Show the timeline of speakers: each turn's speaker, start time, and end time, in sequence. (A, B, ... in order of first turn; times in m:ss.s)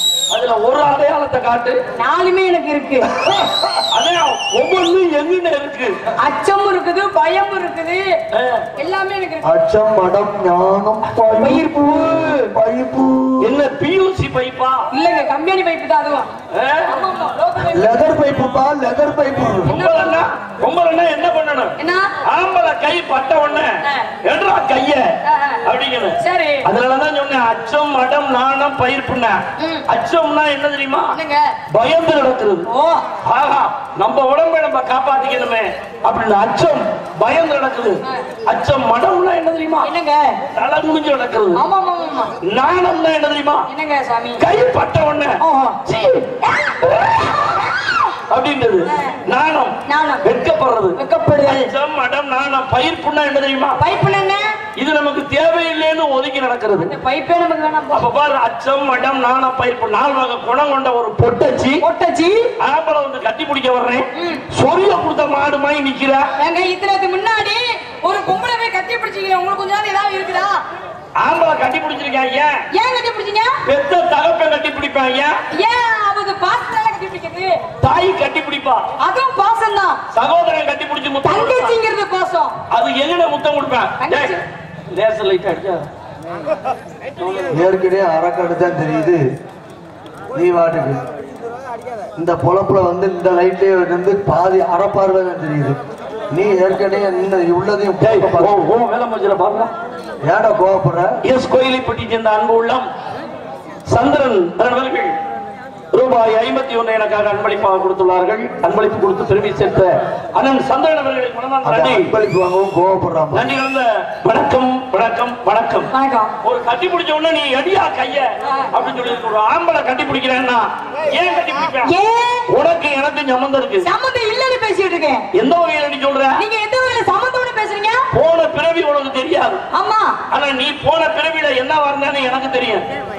0:00.3-0:01.8 A
0:02.0-0:03.1 B
0:03.2-0:03.7 C
0:03.9-0:06.0 A
0:06.2-0:08.1 B
0:08.3-0:08.6 A
0:08.8-0:09.5 B
0:09.4-0:13.6 C
0:11.4-0:12.5 B
0:13.4-0:14.8 A
0:14.9-0:16.3 B
0:16.5-0:16.9 A
0:16.9-0:18.0 B
0:17.7-0:19.7 C
0:19.7-0:20.1 B
0:19.7-0:25.0 A
0:21.8-0:22.1 B
0:23.8-0:24.1 B
0:25.2-0:25.6 B
0:25.6-0:31.1 A
0:26.2-0:26.6 B
0:29.6-0:29.8 B
0:31.1-0:31.5 B
0:31.7-0:32.7 A
0:32.6-0:33.0 B
0:33.2-0:39.9 A
0:39.8-0:40.4 B
0:40.5-0:41.6 A
0:41.5-0:42.3 B
0:42.4-0:43.6 A
0:43.7-0:44.4 B
0:44.4-0:47.7 A
0:45.4-0:45.8 B
0:47.5-0:48.0 B
0:48.3-0:53.8 A
0:48.9-0:49.2 B
0:49.8-0:50.2 B
0:51.0-0:51.7 B
0:53.8-0:54.6 B
0:54.8-0:56.9 A
0:56.8-0:58.0 B
0:57.9-1:01.8 A
1:01.8-1:02.5 B
1:02.6-1:06.3 A
1:04.1-1:04.4 B
1:06.4-1:10.6 B
1:11.2-1:12.6 A
1:12.7-1:13.6 B
1:13.6-1:15.4 A
1:15.5-1:17.6 B
1:17.8-1:18.8 A
1:19.0-1:20.0 B
1:20.1-1:21.8 A
1:21.2-1:22.5 B
1:22.7-1:24.4 A
1:24.0-1:24.4 B
1:24.9-1:25.9 A
1:27.5-1:29.2 C
1:30.3-1:31.0 C
1:32.2-1:35.8 C
1:36.3-1:38.5 C
1:38.0-1:39.7 A
1:40.2-1:41.1 C
1:41.2-1:42.9 A
1:43.9-1:45.1 A
1:45.9-1:52.1 A
1:51.6-1:53.4 C
1:53.3-1:55.9 A
1:55.9-1:56.3 B
1:56.4-2:01.9 A
2:01.8-2:02.5 B
2:02.5-2:03.9 A
2:03.8-2:05.2 B
2:05.3-2:06.4 A
2:06.4-2:08.0 B
2:08.1-2:09.6 A
2:09.7-2:10.2 B
2:10.3-2:12.8 A